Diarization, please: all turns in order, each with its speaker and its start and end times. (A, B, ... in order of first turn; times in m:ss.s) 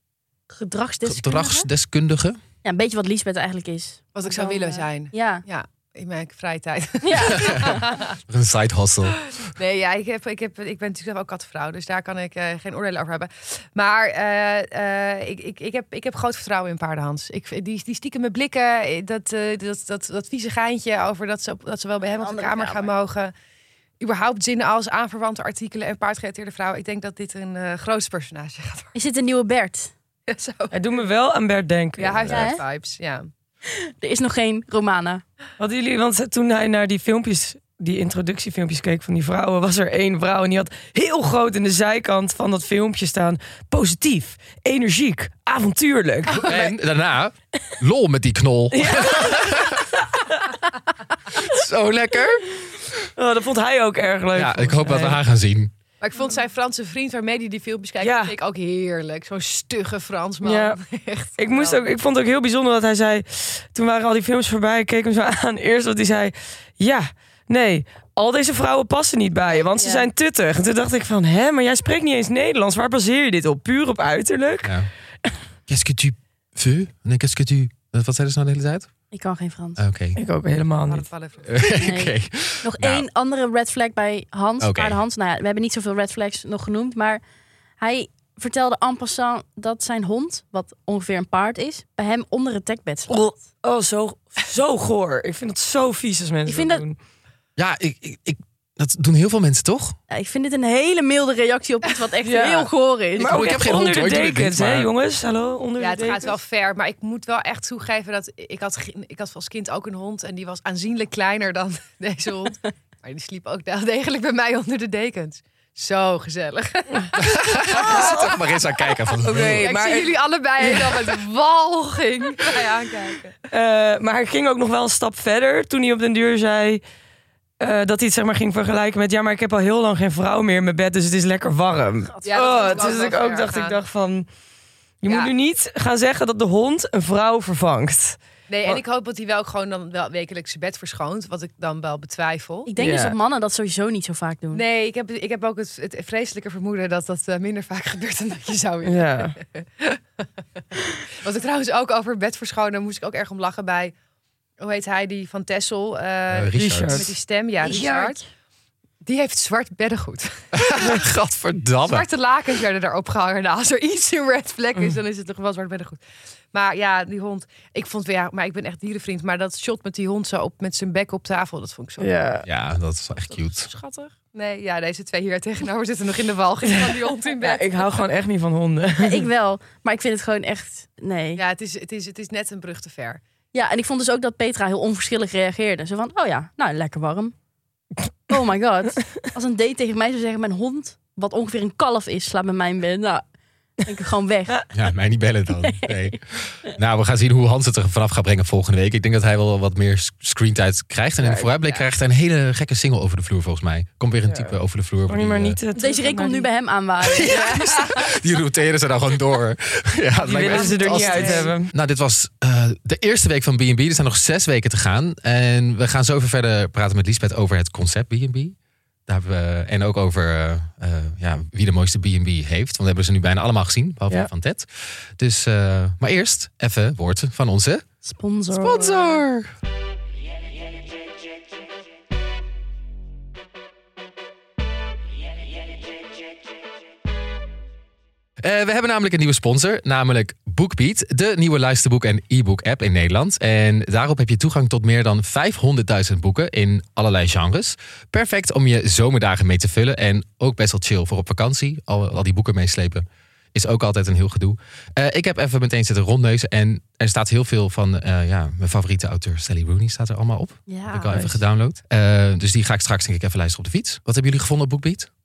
0:00.5-0:01.7 A
0:01.1-0:02.4 B
0:02.6-0:05.4 A
0:04.2-0:08.2 C
0:07.0-0:07.8 A
0:07.4-0:09.2 B
0:09.4-0:23.3 C
0:22.2-0:22.9 A
0:24.0-0:28.9 C
0:28.9-0:29.9 A
0:30.3-0:30.7 C
0:30.7-0:32.6 D
0:32.0-0:33.3 C
0:32.3-0:32.6 A
0:33.7-0:35.2 A
0:35.6-0:46.6 D
0:46.3-0:46.7 C
0:46.4-0:49.9 B
0:48.7-0:50.2 D
0:51.3-0:52.5 B
0:53.0-0:55.2 D
0:54.3-0:55.7 B
0:56.0-1:01.8 C
0:58.0-0:58.4 D
1:00.4-1:00.8 D
1:01.4-1:15.3 D
1:09.5-1:10.1 A
1:14.6-1:14.9 B
1:15.7-1:18.9 B
1:19.1-1:19.8 A
1:19.8-1:20.2 B
1:20.2-1:21.1 D
1:20.9-1:21.7 C
1:21.5-1:23.0 B
1:21.8-1:27.2 A
1:24.6-1:25.0 B
1:27.8-1:33.2 A
1:33.1-1:37.0 D
1:36.5-1:36.8 A
1:37.6-1:40.0 B
1:40.1-1:43.8 A
1:42.2-1:46.4 D
1:43.2-1:44.9 B
1:45.8-1:58.4 C
1:57.2-1:59.7 B
1:57.8-1:58.3 D
1:59.2-2:01.1 D
1:59.2-2:03.4 C
2:03.5-2:06.8 D
2:07.6-2:14.3 D
2:12.2-2:12.9 A
2:12.2-2:13.8 C
2:15.0-2:18.8 D
2:18.5-2:22.7 C
2:22.7-2:24.6 A
2:22.8-2:23.2 D
2:24.5-2:30.0 C
2:28.8-2:29.4 D
2:31.1-2:34.0 C
2:34.6-2:38.2 C
2:36.3-2:37.1 B
2:36.6-2:37.1 D
2:37.6-2:38.2 A
2:39.0-2:41.0 C
2:40.5-2:42.1 B
2:41.9-2:46.0 C
2:46.5-2:52.2 C
2:52.0-2:52.4 D
2:52.4-2:53.7 B
2:53.2-2:57.9 C
2:56.6-2:59.3 D
2:59.0-3:01.4 A
3:01.4-3:03.2 C
3:03.5-3:07.3 A
3:08.3-3:13.2 A
3:13.8-3:14.6 A
3:14.7-3:25.6 B
3:15.6-3:16.2 A
3:21.2-3:21.5 D
3:24.3-3:24.6 D
3:25.1-3:26.5 D
3:25.8-3:28.1 A
3:27.1-3:38.6 B
3:27.4-3:27.6 C
3:30.2-3:31.7 D
3:30.4-3:31.5 C
3:30.9-3:31.5 A
3:39.1-3:47.8 B
3:48.0-3:49.2 A
3:48.5-3:49.5 B
3:58.4-4:25.1 B
4:20.7-4:21.3 A